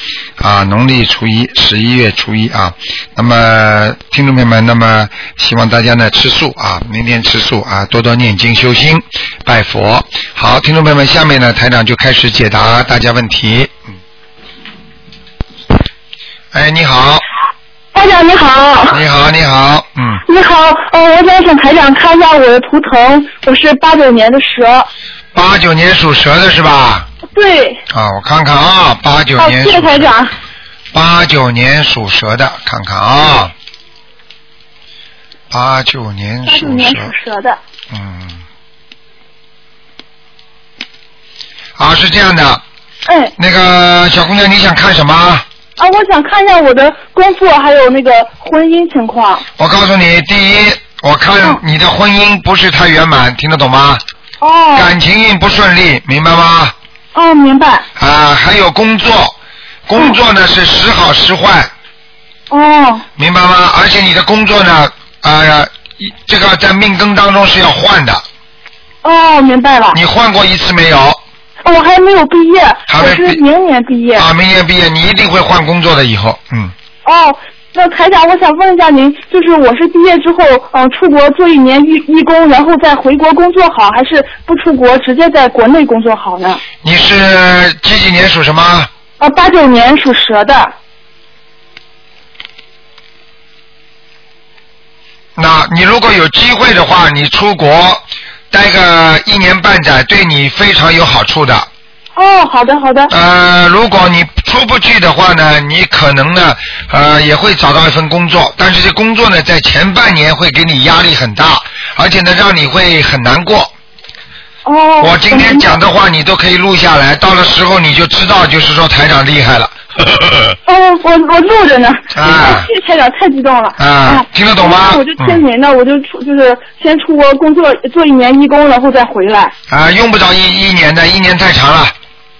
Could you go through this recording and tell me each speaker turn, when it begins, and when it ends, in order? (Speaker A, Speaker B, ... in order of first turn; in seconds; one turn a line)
Speaker A: 0.4-13.7
Speaker A: 16.5-17.2
Speaker B: 17.9-19.0
Speaker A: 18.9-20.2
Speaker B: 20.2-24.9
Speaker A: 25.3-27.1
Speaker B: 27.3-27.8
Speaker A: 27.9-30.1
Speaker B: 29.4-30.3
Speaker A: 30.9-33.5
Speaker A: 35.5-37.1
Speaker B: 36.5-37.6
Speaker A: 37.9-38.4
Speaker A: 41.8-42.6
Speaker B: 43.1-43.3
Speaker A: 43.4-45.4
Speaker B: 45.8-49.5
Speaker A: 49.6-54.0
Speaker B: 54.4-54.9
Speaker A: 54.7-56.7
Speaker B: 57.1-57.9
Speaker A: 58.0-59.3
Speaker A: 59.9-61.7
Speaker B: 62.5-63.0
Speaker A: 63.2-68.2
Speaker B: 69.0-70.0
Speaker A: 69.9-71.2
Speaker B: 71.6-74.3
Speaker A: 72.9-73.4
Speaker A: 74.1-76.7
Speaker B: 77.0-86.6
Speaker A: 86.8-88.9
Speaker B: 89.2-90.7
Speaker A: 95.3-101.7
Speaker B: 102.2-103.1
Speaker A: 103.1-113.7
Speaker B: 114.6-115.7
Speaker A: 115.0-120.6
Speaker B: 120.7-129.5
Speaker A: 122.1-122.7
Speaker A: 123.8-125.4
Speaker A: 129.7-131.9